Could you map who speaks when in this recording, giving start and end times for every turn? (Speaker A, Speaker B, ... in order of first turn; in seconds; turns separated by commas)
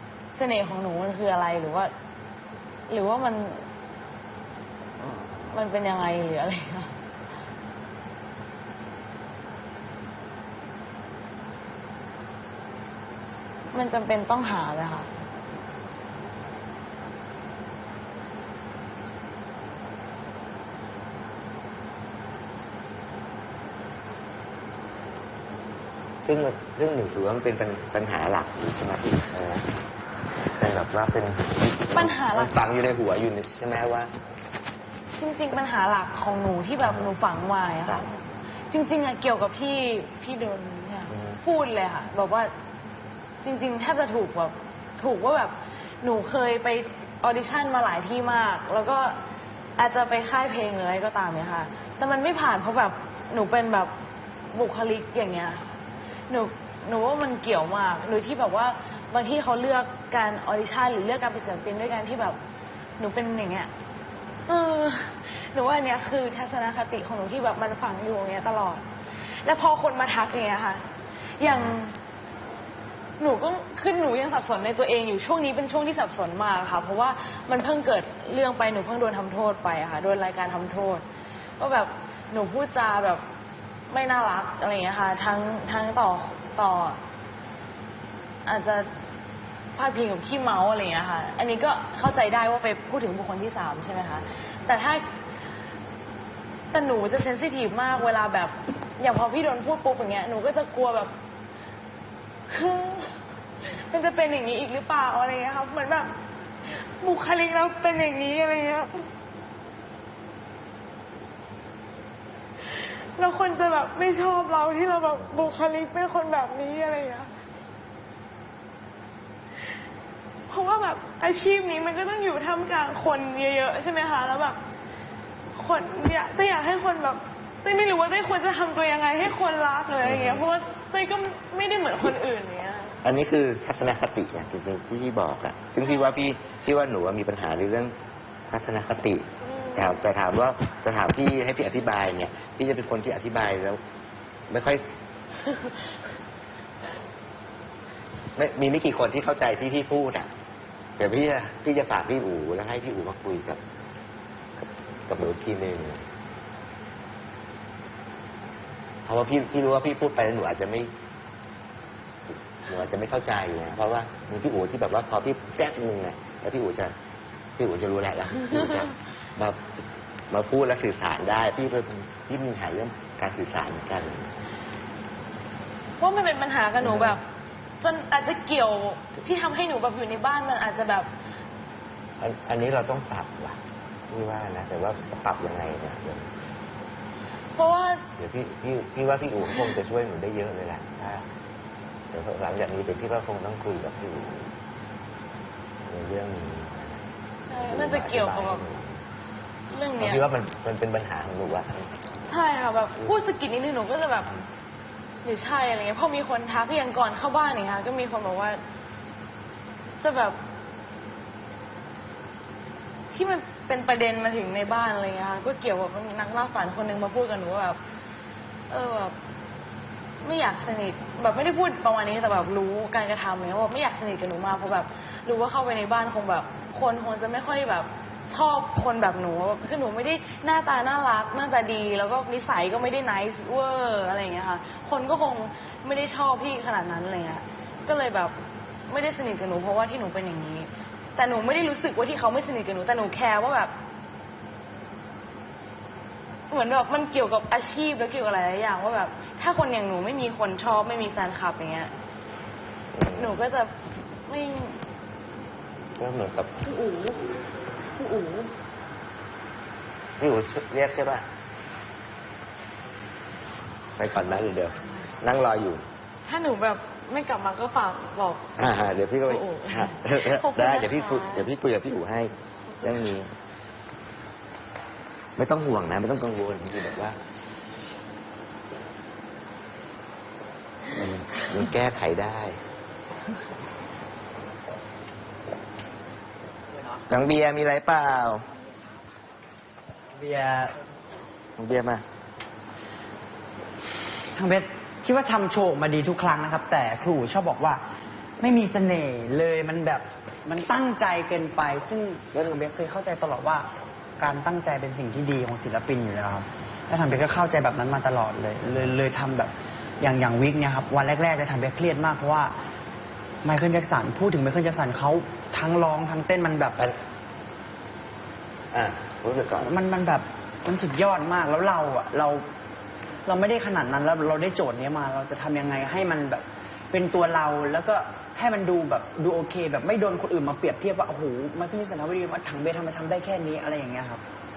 Speaker A: 0.3-1.9, Speaker A: 2.9-3.6, Speaker A: 5.0-6.9, Speaker A: 13.7-15.1, Speaker B: 26.2-29.7, Speaker B: 30.6-34.1, Speaker A: 31.9-32.6, Speaker A: 35.1-38.1, Speaker A: 38.7-42.5, Speaker B: 41.1-41.4, Speaker A: 43.4-49.2, Speaker A: 49.8-53.9, Speaker A: 54.5-55.7, Speaker A: 56.3-62.4, Speaker A: 63.0-63.7, Speaker A: 64.5-68.8, Speaker A: 69.4-70.8, Speaker A: 71.4-72.0, Speaker A: 73.2-81.0, Speaker A: 81.6-83.2, Speaker A: 83.9-87.0, Speaker A: 88.5-88.9, Speaker A: 89.8-95.0, Speaker A: 96.7-101.1, Speaker A: 102.5-103.2, Speaker A: 103.7-106.2, Speaker A: 106.7-109.0, Speaker A: 112.7-117.3, Speaker A: 120.5-124.6, Speaker A: 125.5-133.0, Speaker B: 130.0-130.5, Speaker B: 133.0-137.9, Speaker B: 138.5-143.8, Speaker B: 144.5-144.8, Speaker B: 148.4-150.3, Speaker B: 151.0-153.6, Speaker B: 155.1-156.0, Speaker B: 159.1-160.9, Speaker B: 162.3-166.9, Speaker B: 167.6-169.6, Speaker B: 170.3-174.3, Speaker A: 176.0-177.2, Speaker B: 176.8-177.2, Speaker A: 177.8-181.1, Speaker B: 182.2-186.3, Speaker A: 187.6-188.1, Speaker B: 188.2-191.3, Speaker B: 192.1-194.5, Speaker B: 195.8-199.0, Speaker A: 197.5-198.6, Speaker A: 199.7-200.2, Speaker B: 200.0-201.9, Speaker A: 202.3-204.4, Speaker A: 205.2-208.6, Speaker A: 210.0-210.4, Speaker A: 213.1-217.8, Speaker A: 218.7-219.2, Speaker A: 220.2-238.3, Speaker A: 238.9-243.7, Speaker A: 246.5-251.9, Speaker B: 252.9-253.4, Speaker A: 253.2-253.8, Speaker A: 254.3-254.8, Speaker B: 256.0-256.7, Speaker A: 256.6-257.3, Speaker A: 258.0-258.5, Speaker B: 260.2-261.3, Speaker B: 264.0-265.8, Speaker A: 266.3-268.7, Speaker B: 268.6-273.3, Speaker A: 269.3-271.5, Speaker B: 275.4-277.2, Speaker B: 280.9-282.6, Speaker C: 286.7-287.1, Speaker B: 287.1-288.5, Speaker C: 290.1-290.8, Speaker B: 291.6-292.0, Speaker C: 294.4-297.8, Speaker C: 298.4-303.7, Speaker C: 304.2-312.5, Speaker C: 313.4-316.8, Speaker B: 318.7-319.7, Speaker C: 319.6-322.4, Speaker C: 323.3-334.2